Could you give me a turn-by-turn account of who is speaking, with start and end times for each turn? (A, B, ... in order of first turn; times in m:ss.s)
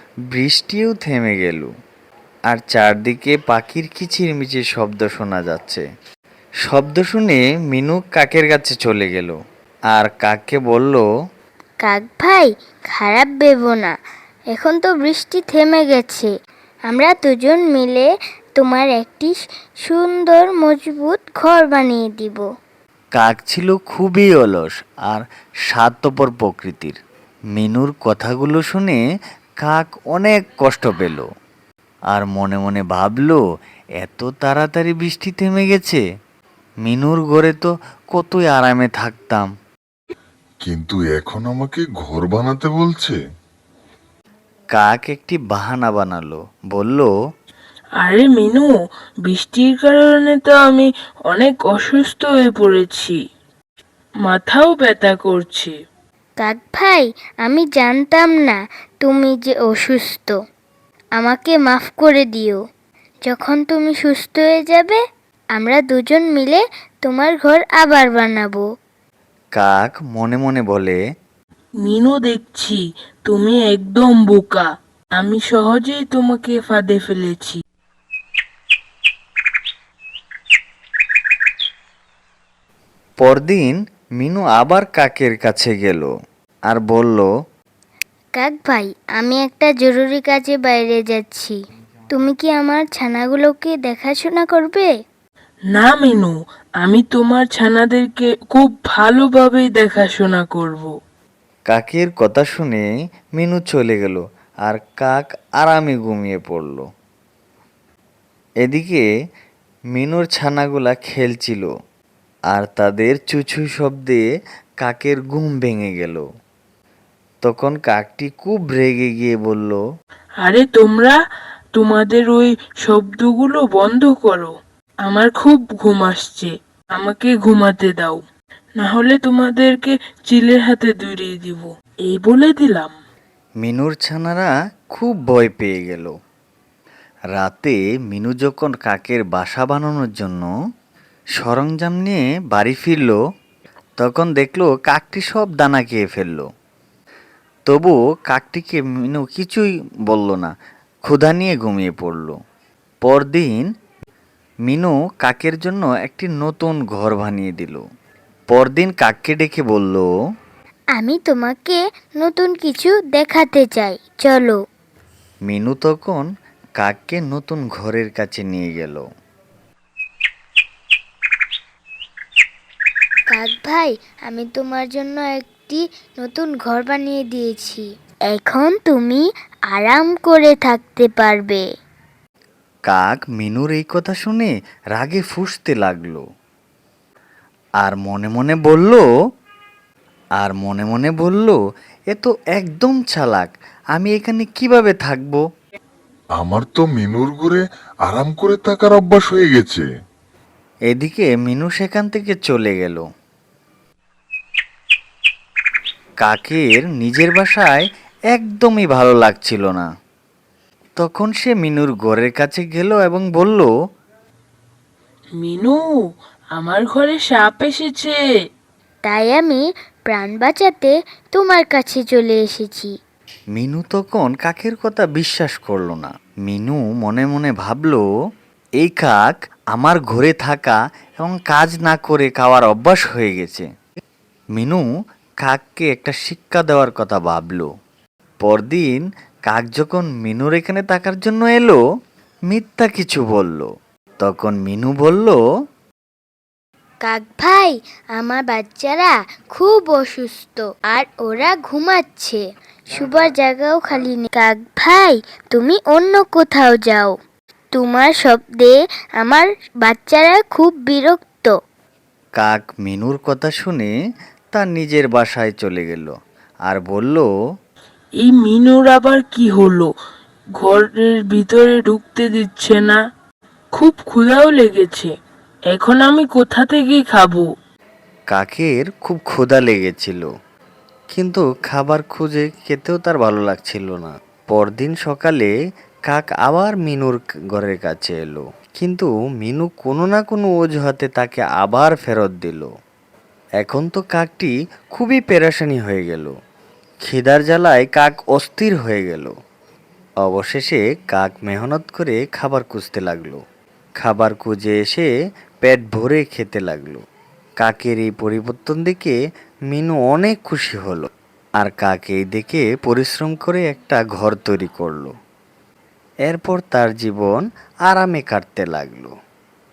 0:00.3-0:01.7 A
0:02.5-0:05.8 A
0:06.6-0:09.4 A
0:09.9-0:11.1 A
0:11.8-0:13.9 B
0:14.5-0:16.3 B
0:16.9-0:22.4 B
0:23.2-0:27.0 A
0:27.6-0:29.0 A
0:29.6-0:31.3 A
0:32.1-0:33.4 A
0:34.0-0:36.0 A
0:36.8-0:39.5 A
0:40.6-0:43.2 C
0:44.8-0:47.1 A
0:48.0-0:48.7 D
0:49.3-0:53.2 D
0:54.2-0:55.7 D
0:56.4-1:00.3 B
1:01.2-1:02.6 B
1:03.3-1:05.0 B
1:05.6-1:08.6 B
1:09.6-1:11.0 A
1:11.8-1:14.6 D
1:15.2-1:17.6 D
1:23.2-1:26.1 A
1:26.7-1:27.3 A
1:28.4-1:31.6 B
1:32.1-1:34.9 B
1:35.7-1:40.9 D
1:41.7-1:46.8 A
1:48.6-1:49.0 A
1:49.9-1:51.7 A
1:52.5-1:54.2 A
1:54.8-1:56.2 A
1:57.4-1:59.8 A
2:00.4-2:01.2 D
2:01.8-2:04.5 D
2:05.1-2:08.2 D
2:08.8-2:12.9 D
2:13.6-2:16.1 A
2:17.3-2:20.5 A
2:21.4-2:23.2 A
2:24.0-2:26.5 A
2:27.7-2:30.5 A
2:31.1-2:32.4 A
2:33.0-2:33.7 A
2:34.7-2:37.8 A
2:38.5-2:40.1 A
2:41.0-2:44.6 B
2:45.5-2:46.2 A
2:46.8-2:49.0 A
2:53.3-3:01.6 B
3:02.9-3:06.2 A
3:07.8-3:09.0 A
3:10.4-3:11.6 A
3:12.1-3:15.4 A
3:16.4-3:19.9 C
3:20.9-3:23.0 A
3:26.2-3:29.9 A
3:31.0-3:33.7 A
3:35.4-3:35.8 D
3:36.6-3:38.2 D
3:39.0-3:42.9 B
3:43.6-3:48.0 A
3:48.8-3:53.7 A
3:54.6-3:54.9 A
3:55.4-3:57.7 A
3:58.4-4:01.8 A
4:02.5-4:03.7 A
4:04.2-4:05.4 A
4:07.0-4:12.4 B
4:12.9-4:17.1 B
4:17.7-4:21.5 B
4:22.4-4:23.9 A
4:24.5-4:26.1 A
4:26.7-4:27.3 A
4:28.2-4:29.9 D
4:30.6-4:33.0 D
4:33.8-4:35.1 D
4:35.7-4:37.5 D
4:38.3-4:40.3 A
4:41.1-4:45.5 A
4:46.1-4:52.7 A
4:53.6-4:56.3 A
4:57.0-4:59.3 A
5:00.2-5:03.4 A
5:04.0-5:05.1 A
5:05.6-5:07.0 A
5:07.6-5:09.2 A
5:09.7-5:11.1 A
5:11.6-5:15.1 A
5:16.3-5:19.1 A